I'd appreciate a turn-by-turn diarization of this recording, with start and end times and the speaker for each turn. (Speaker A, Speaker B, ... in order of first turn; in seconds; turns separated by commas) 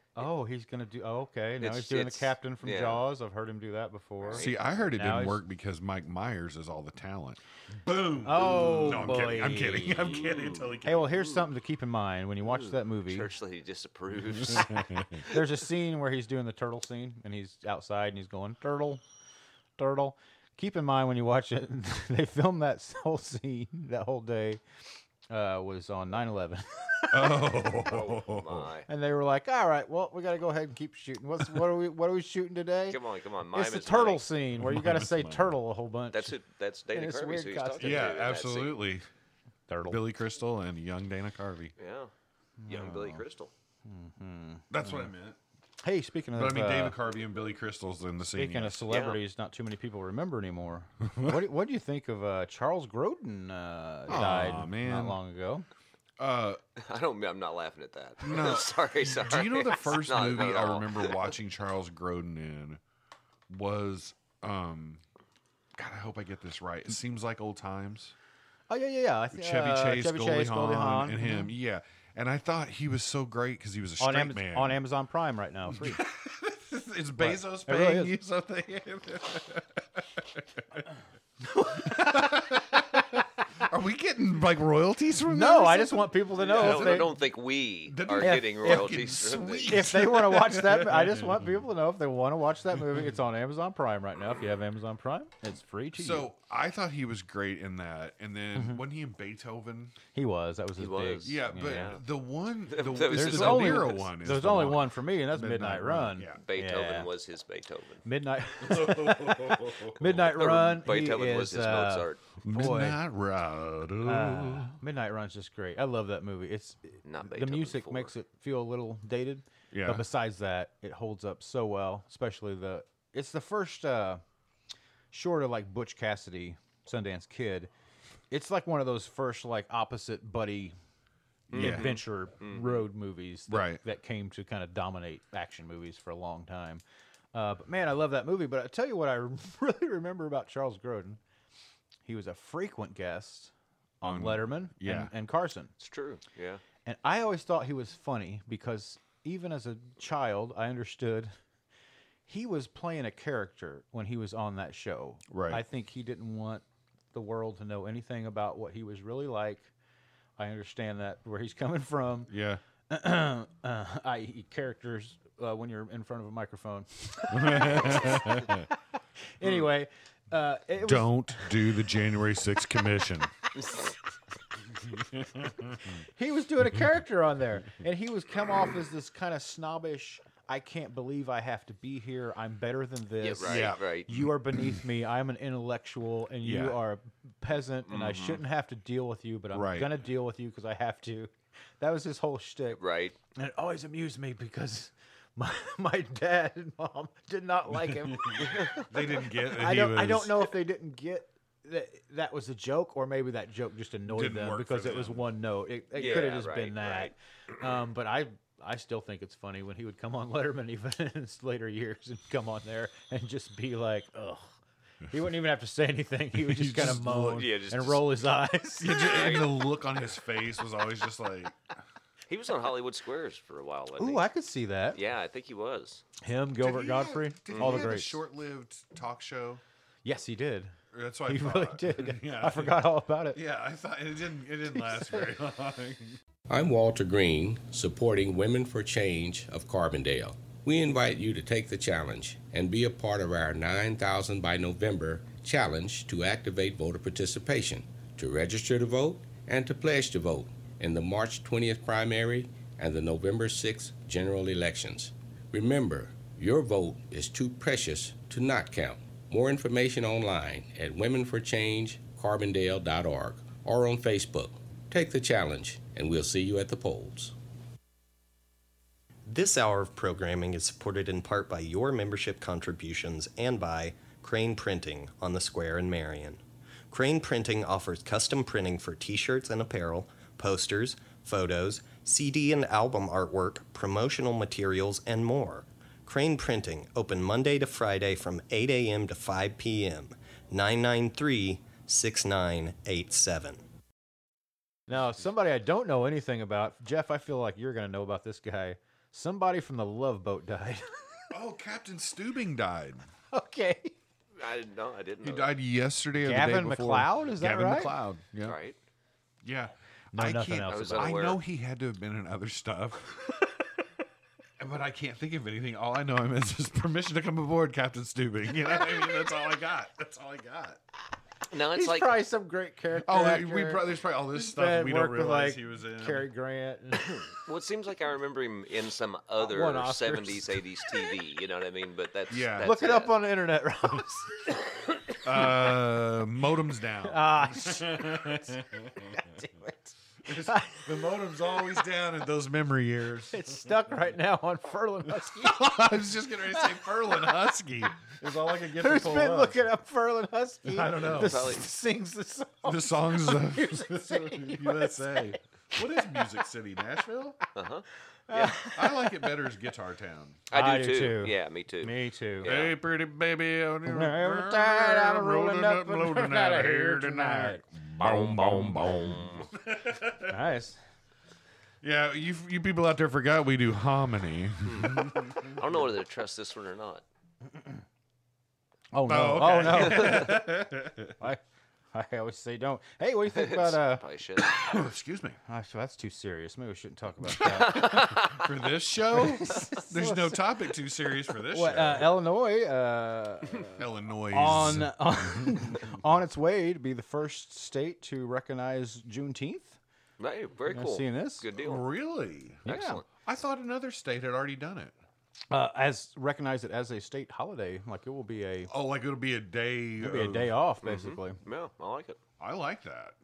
Speaker A: 0.1-5.4, Speaker B: 1.6-3.0, Speaker B: 4.2-4.6, Speaker C: 4.3-11.2, Speaker A: 8.2-10.2, Speaker B: 8.6-9.3, Speaker B: 9.9-10.7, Speaker A: 10.8-13.3, Speaker B: 12.4-15.3, Speaker C: 14.4-15.1, Speaker A: 15.3-19.0, Speaker A: 19.8-24.6, Speaker A: 25.3-27.6, Speaker C: 27.1-28.7, Speaker B: 27.8-28.9, Speaker A: 28.9-33.0, Speaker B: 32.9-34.2, Speaker A: 33.5-36.4, Speaker C: 34.6-35.5, Speaker B: 36.1-38.8, Speaker A: 36.9-38.1, Speaker C: 37.8-39.0, Speaker A: 39.7-40.0, Speaker C: 39.9-41.7, Speaker B: 41.8-42.1, Speaker A: 42.6-43.2, Speaker B: 42.7-43.5, Speaker A: 43.8-45.1, Speaker C: 44.7-45.4, Speaker A: 45.8-47.0, Speaker C: 46.3-48.9, Speaker A: 48.3-55.6, Speaker B: 48.9-49.2, Speaker C: 51.1-51.4, Speaker C: 54.1-55.2, Speaker C: 56.2-56.6, Speaker B: 56.8-61.3, Speaker C: 58.2-62.8, Speaker C: 63.5-65.0, Speaker C: 65.8-68.1, Speaker A: 68.7-71.5, Speaker C: 69.3-74.8, Speaker A: 74.0-76.0, Speaker C: 75.7-80.8, Speaker A: 77.2-78.1, Speaker A: 81.5-82.2, Speaker C: 81.6-87.1, Speaker A: 85.2-87.1, Speaker B: 86.4-89.8, Speaker C: 87.9-91.5, Speaker A: 88.2-89.1, Speaker A: 89.7-96.3, Speaker C: 95.9-99.9, Speaker A: 98.5-98.8, Speaker A: 100.1-101.9, Speaker B: 100.8-102.0, Speaker C: 101.2-106.4, Speaker B: 102.7-104.0, Speaker A: 103.1-107.1, Speaker B: 106.4-108.0, Speaker A: 108.0-113.0, Speaker C: 108.6-110.1, Speaker B: 110.1-112.2, Speaker C: 112.4-114.7, Speaker A: 114.0-124.2, Speaker B: 117.0-118.1, Speaker C: 119.7-120.0, Speaker A: 125.1-127.7, Speaker A: 128.3-130.7, Speaker C: 131.5-132.0, Speaker B: 131.5-132.8, Speaker A: 131.5-136.8, Speaker C: 133.5-133.8, Speaker A: 137.3-141.2, Speaker A: 142.1-145.7, Speaker C: 144.0-145.1, Speaker B: 145.8-146.6, Speaker A: 146.8-151.3, Speaker A: 152.3-159.7, Speaker C: 155.3-155.6, Speaker A: 160.4-162.3, Speaker C: 162.3-162.6, Speaker A: 162.9-168.6, Speaker C: 167.3-168.7, Speaker A: 169.4-171.7, Speaker C: 170.8-173.3, Speaker C: 175.1-175.8, Speaker A: 175.8-192.8, Speaker B: 183.2-184.1, Speaker C: 183.4-184.8, Speaker C: 186.4-186.8, Speaker B: 187.9-188.4, Speaker C: 189.5-189.9, Speaker B: 192.8-193.1, Speaker A: 193.3-198.8, Speaker C: 197.7-200.5, Speaker A: 199.5-214.5, Speaker C: 204.1-205.3, Speaker B: 205.9-207.1, Speaker A: 215.1-219.2, Speaker C: 216.3-217.4, Speaker B: 217.2-218.0, Speaker C: 218.8-221.6, Speaker B: 219.0-219.6, Speaker B: 222.3-224.3, Speaker A: 224.0-225.0, Speaker B: 224.9-226.0, Speaker A: 226.2-228.2, Speaker C: 226.6-229.6, Speaker B: 227.5-227.9, Speaker A: 230.0-230.7, Speaker C: 230.9-236.2, Speaker A: 231.3-233.4, Speaker A: 234.8-235.2, Speaker D: 236.5-267.3, Speaker E: 269.2-293.6, Speaker A: 294.9-301.0, Speaker C: 301.3-303.1, Speaker A: 303.3-303.9, Speaker B: 304.4-305.5, Speaker C: 305.2-308.6, Speaker A: 306.2-307.9, Speaker B: 308.4-308.8, Speaker C: 309.4-313.4, Speaker A: 310.1-311.2, Speaker B: 310.7-311.4, Speaker C: 314.6-320.8, Speaker B: 321.5-322.2, Speaker A: 321.7-327.2, Speaker C: 322.9-326.3, Speaker B: 327.2-333.1, Speaker A: 329.4-331.1, Speaker C: 332.3-332.7, Speaker A: 332.6-335.5, Speaker C: 335.2-339.3, Speaker A: 337.0-341.1, Speaker C: 340.2-343.4, Speaker A: 343.3-347.4, Speaker C: 345.1-349.6, Speaker A: 348.8-356.4, Speaker C: 350.7-351.6, Speaker B: 351.0-351.6, Speaker C: 352.6-357.4, Speaker B: 357.5-358.6, Speaker A: 358.3-359.3, Speaker C: 358.7-360.4, Speaker B: 360.5-362.7, Speaker A: 360.5-362.5, Speaker C: 362.4-370.3, Speaker A: 363.9-367.6, Speaker B: 368.0-369.5, Speaker A: 368.5-369.1, Speaker A: 370.3-370.8, Speaker C: 371.8-375.6, Speaker B: 374.6-377.0, Speaker A: 377.5-377.8, Speaker A: 378.9-380.5, Speaker C: 379.1-381.1, Speaker A: 381.9-384.0, Speaker B: 383.3-384.5, Speaker C: 384.4-385.4, Speaker A: 385.4-388.1, Speaker C: 387.2-392.1, Speaker B: 387.6-388.5, Speaker A: 389.1-390.5, Speaker A: 391.5-399.8, Speaker C: 393.8-395.6, Speaker B: 400.2-401.9, Speaker A: 400.7-401.4, Speaker C: 401.6-402.6, Speaker A: 402.6-403.0, Speaker B: 402.6-403.1, Speaker C: 403.2-404.9, Speaker A: 405.5-408.7, Speaker C: 408.7-410.6, Speaker A: 410.0-411.4, Speaker B: 410.8-412.2, Speaker C: 412.4-413.1